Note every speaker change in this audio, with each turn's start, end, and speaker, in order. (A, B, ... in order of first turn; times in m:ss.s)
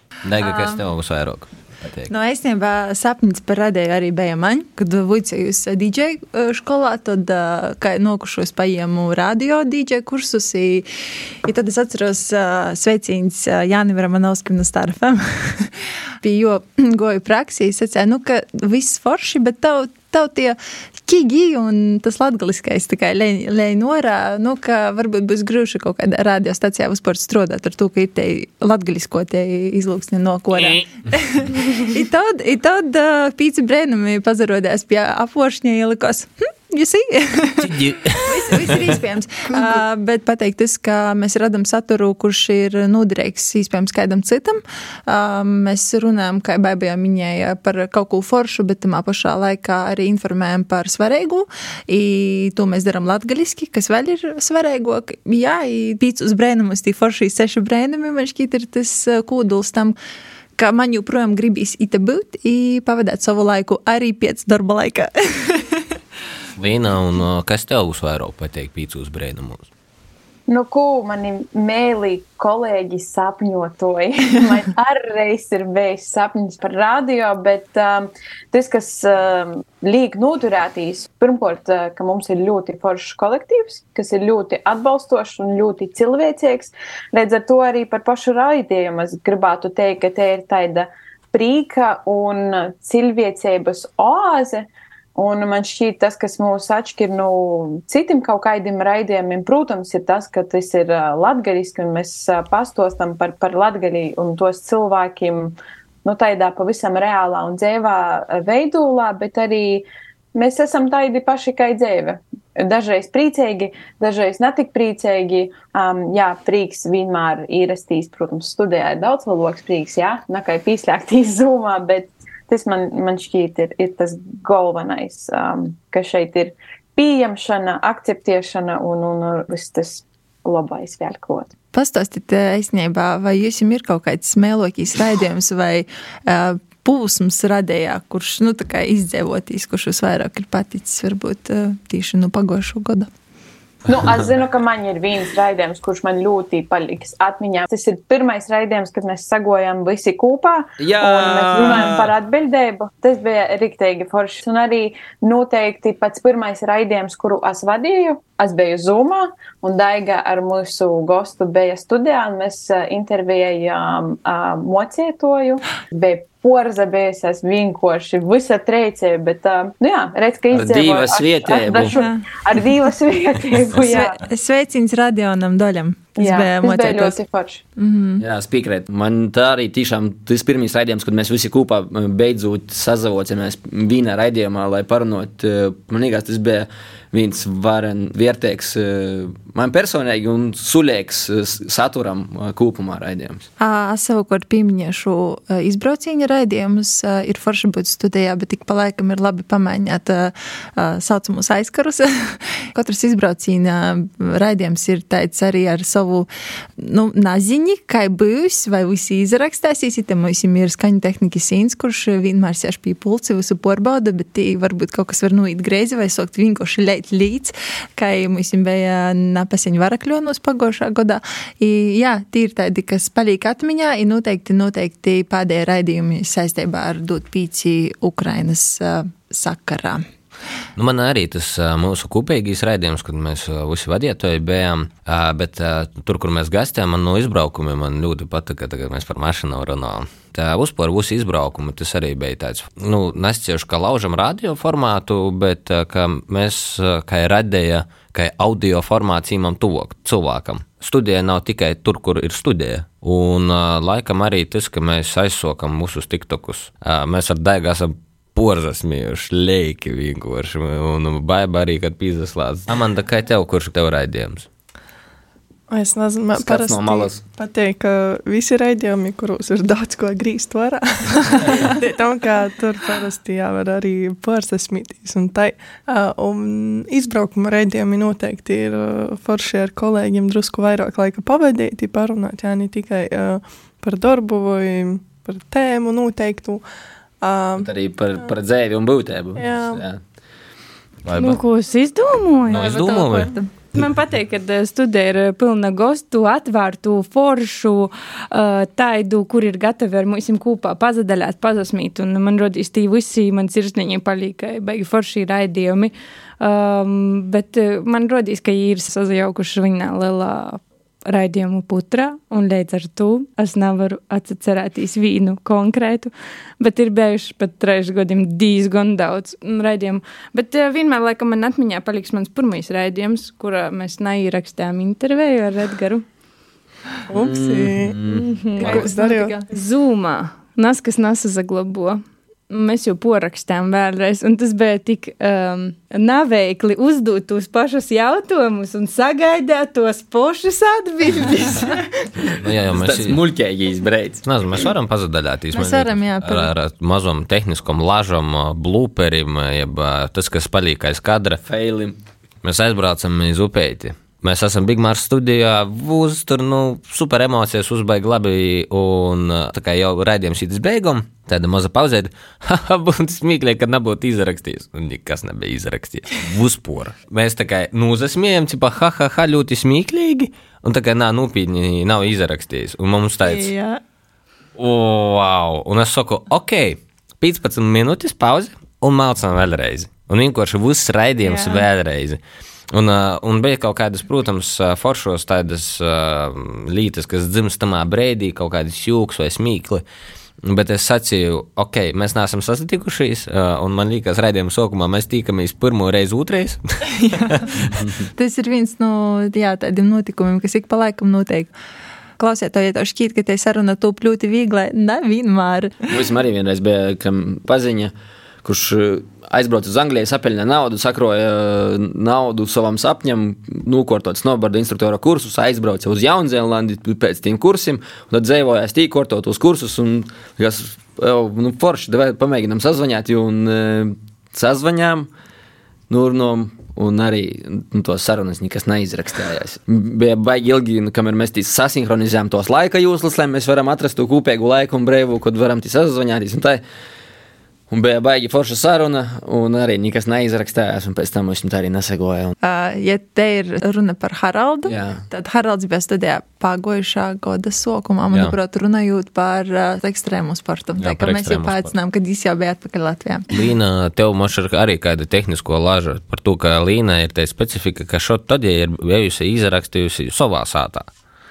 0:00.2-0:02.1 A
0:00.4-0:00.8 B
0:02.1-1:00.0 B
0:37.6-0:38.9 A
1:00.6-1:05.8 B
1:06.6-1:09.6 A
1:10.5-2:11.5 C
2:11.7-2:23.1 B
2:23.9-2:54.2 C
2:30.8-2:32.1 D
2:50.5-2:52.0 D
2:51.7-2:52.2 B
2:53.8-2:57.2 B
2:56.2-2:57.6 C
2:57.8-2:58.2 B
2:58.2-3:13.5 D
3:13.6-3:50.0 B
3:50.8-4:24.5 A
4:25.7-4:46.6 E
4:26.3-4:27.2 D
4:47.2-4:47.7 E
4:47.5-4:50.0 D
4:49.4-4:49.8 E
4:51.0-4:51.4 A
4:51.1-5:26.0 F
4:52.5-4:53.3 A
4:52.5-4:53.5 B
5:27.1-5:27.9 E
5:27.2-5:28.3 D
5:28.2-5:29.0 F
5:28.6-5:29.3 E
5:28.6-5:29.4 B
5:29.5-5:41.8 F
5:42.4-5:43.2 A
5:42.6-5:44.2 D
5:44.2-5:51.4 A
5:45.5-5:46.5 B
5:51.4-5:51.9 D
5:52.4-6:13.5 A
6:14.6-6:22.2 A
6:22.7-6:29.8 A
6:30.4-6:37.7 A
6:37.1-6:37.4 B
6:38.1-6:41.5 B
6:42.2-6:45.8 B
6:45.9-6:47.9 D
6:48.4-7:05.1 D
7:05.9-7:16.6 D
7:17.7-7:22.3 D
7:22.4-7:33.2 B
7:24.7-7:25.0 D
7:30.8-7:31.7 A
7:33.3-7:40.9 A